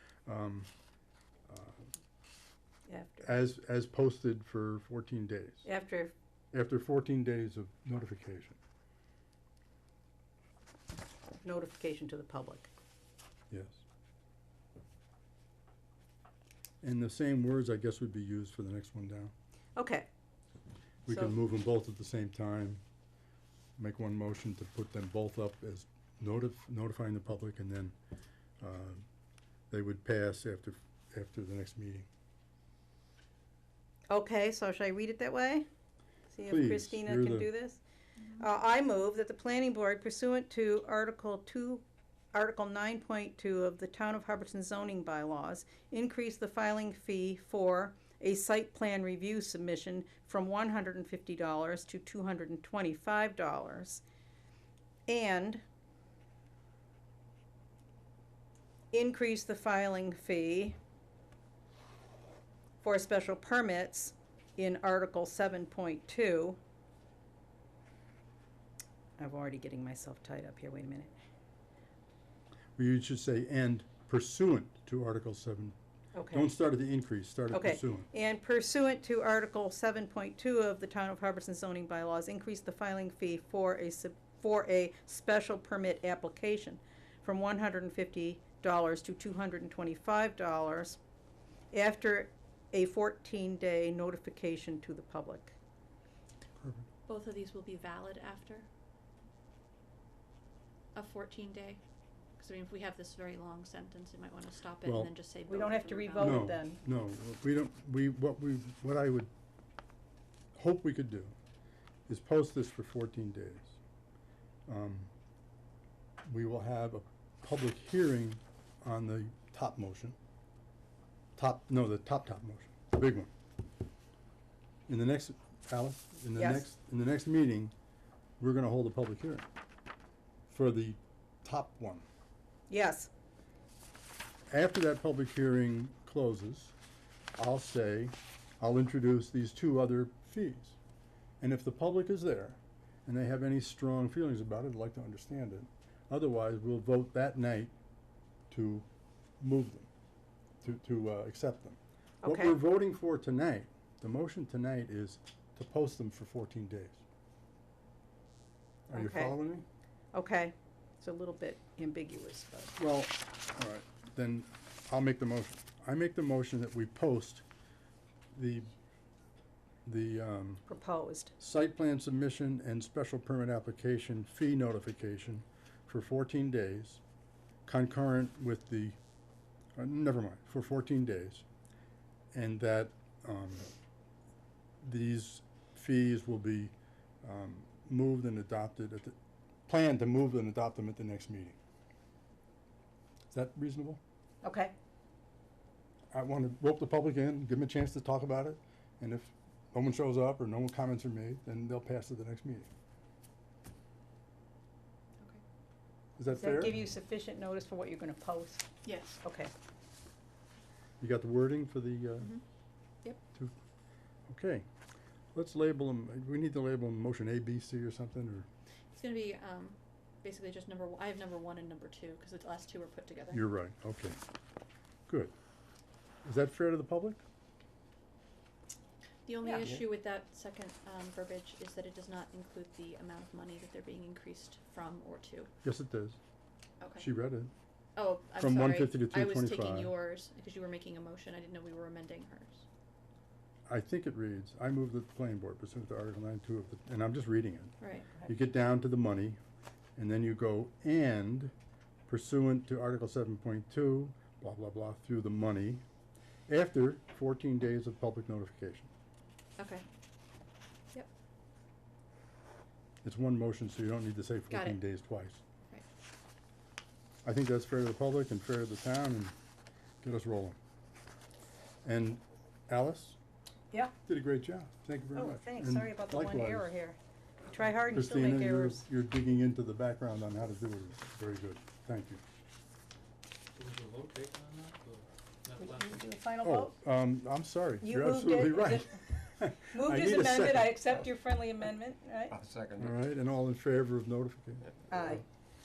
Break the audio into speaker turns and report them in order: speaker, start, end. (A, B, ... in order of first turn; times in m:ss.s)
0:00.3-0:00.7 A
0:01.5-0:01.8 A
0:02.9-0:03.3 B
0:03.2-0:05.6 A
0:05.6-0:06.1 B
0:06.5-0:08.6 A
0:11.4-0:12.7 B
0:13.5-0:13.8 A
0:16.8-0:19.3 A
0:19.8-0:20.1 B
0:21.1-0:22.8 A
0:21.1-0:21.3 B
0:23.8-0:27.9 A
0:28.6-0:29.0 A
0:29.7-0:32.1 A
0:34.1-0:35.7 B
0:36.3-0:37.8 B
0:36.5-0:37.5 A
0:38.3-0:54.0 B
0:55.1-0:55.6 B
0:58.9-1:00.8 B
1:02.8-1:06.6 B
1:09.2-1:11.1 B
1:12.8-1:15.8 A
1:16.1-1:16.5 B
1:16.3-1:18.1 A
1:17.5-1:31.0 B
1:31.7-1:35.6 B
1:36.6-1:36.9 A
1:37.1-1:38.7 C
1:41.0-1:41.8 C
1:42.4-1:46.4 C
1:44.8-1:45.1 A
1:45.5-1:46.8 B
1:46.2-1:49.3 A
1:50.6-1:51.4 A
1:52.1-1:53.8 A
1:54.7-1:55.1 A
1:56.2-2:00.2 A
2:01.4-2:03.3 A
2:04.9-2:07.7 A
2:06.4-2:06.7 B
2:08.4-2:09.5 A
2:10.5-2:12.0 A
2:12.7-2:13.1 B
2:14.5-2:16.7 A
2:17.4-2:20.8 A
2:21.4-2:27.7 A
2:28.5-2:28.9 A
2:29.4-2:29.9 A
2:30.6-2:37.0 A
2:32.2-2:32.6 B
2:38.9-2:39.4 B
2:38.9-2:39.6 A
2:40.1-2:42.8 B
2:42.8-2:47.4 A
2:48.3-2:48.7 A
2:49.9-2:50.6 A
2:50.7-2:51.3 B
2:51.4-2:57.0 A
2:57.7-2:59.0 A
2:59.8-3:01.4 A
3:02.3-3:03.7 A
3:04.8-3:09.2 A
3:09.7-3:11.6 A
3:13.3-3:14.0 A
3:14.4-3:14.7 B
3:16.1-3:22.7 A
3:26.2-3:26.8 A
3:26.3-3:28.7 B
3:28.8-3:29.2 C
3:29.2-3:29.5 B
3:31.0-3:32.3 A
3:34.3-3:34.7 A
3:35.4-3:38.5 A
3:38.9-3:43.4 C
3:43.3-3:44.2 A
3:45.1-3:45.3 A
3:46.2-3:47.2 A
3:49.3-3:55.5 C
3:55.6-3:56.2 A
3:56.8-3:57.1 C
3:57.0-3:57.5 A
3:58.0-4:02.6 C
3:58.4-3:59.9 A
4:03.7-4:07.7 A
4:07.8-4:08.1 C
4:08.2-4:09.4 A
4:10.0-4:11.5 A
4:12.1-4:15.8 A
4:16.5-4:18.9 A
4:19.6-4:19.8 C
4:23.0-4:25.4 A
4:24.5-4:24.8 C
4:27.2-4:29.3 A
4:30.0-4:30.6 A
4:31.8-4:33.2 A
4:34.0-4:36.7 A
4:35.1-4:37.0 B
4:37.5-4:38.8 B
4:37.9-4:42.2 A
4:43.6-4:45.9 D
4:45.6-4:46.7 B
4:46.4-4:50.8 A
4:47.8-4:49.1 B
4:49.7-4:52.4 B
4:52.4-4:52.8 D
4:52.8-4:54.7 A
4:54.9-4:55.2 B